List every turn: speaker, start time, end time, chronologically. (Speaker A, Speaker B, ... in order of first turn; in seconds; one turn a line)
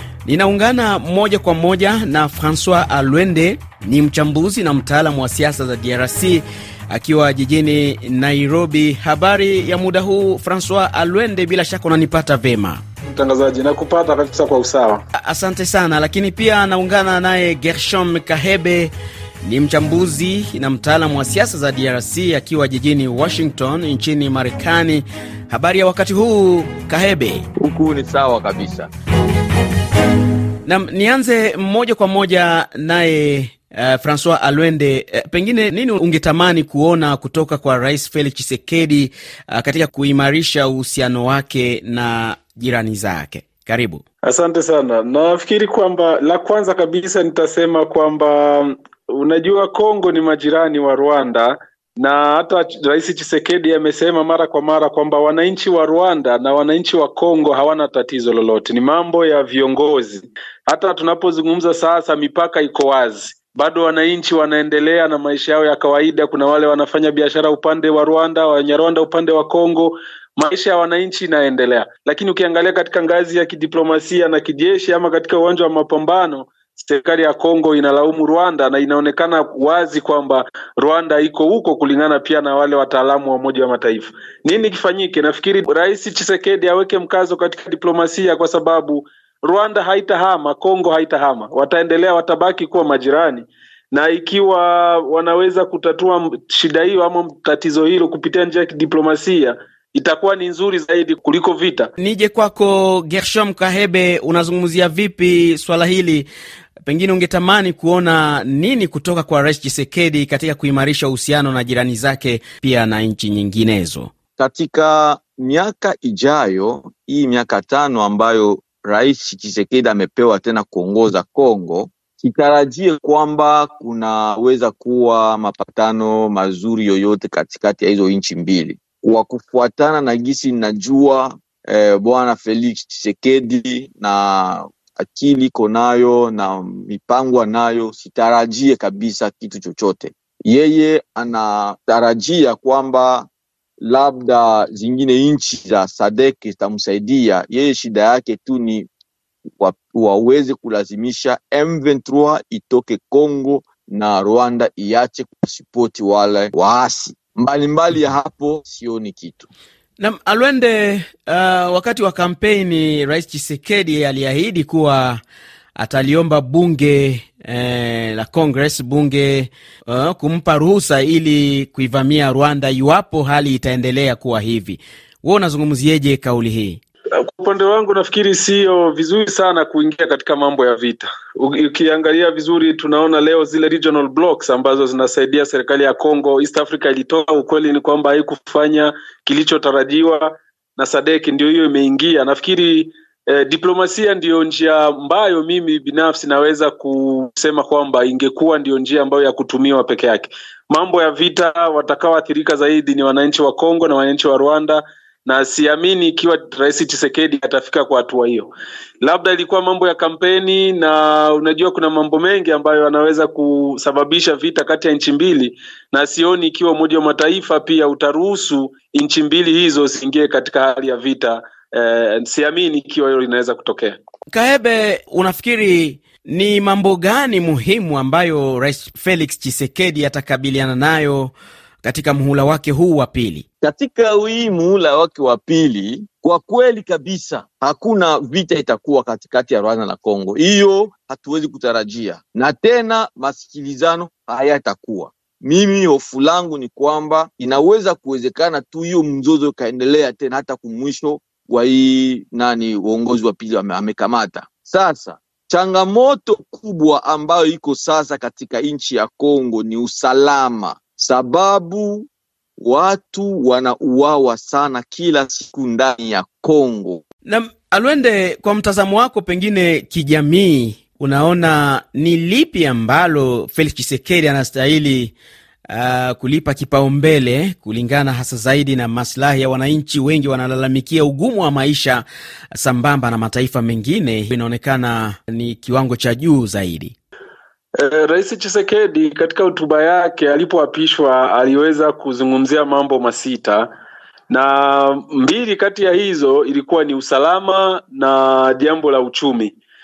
Speaker A: 0.3-12.8
Speaker B: 13.1-15.0
Speaker A: 15.2-18.9
Speaker A: 19.4-27.5
Speaker C: 27.6-28.9
Speaker A: 30.7-44.0
Speaker B: 44.2-101.9
Speaker A: 102.0-106.3
Speaker A: 106.9-114.1
Speaker C: 114.4-143.3
Speaker C: 143.8-148.9
Speaker C: 149.6-159.5
Speaker A: 160.0-165.2
Speaker A: 165.8-176.8
Speaker B: 177.2-208.5
Speaker B: 209.0-224.0
Speaker A: 224.3-233.4
Speaker C: 233.6-267.0
Speaker A: 267.2-275.1
Speaker A: 275.7-286.9
Speaker B: 287.8-293.7
Speaker B: 294.3-299.6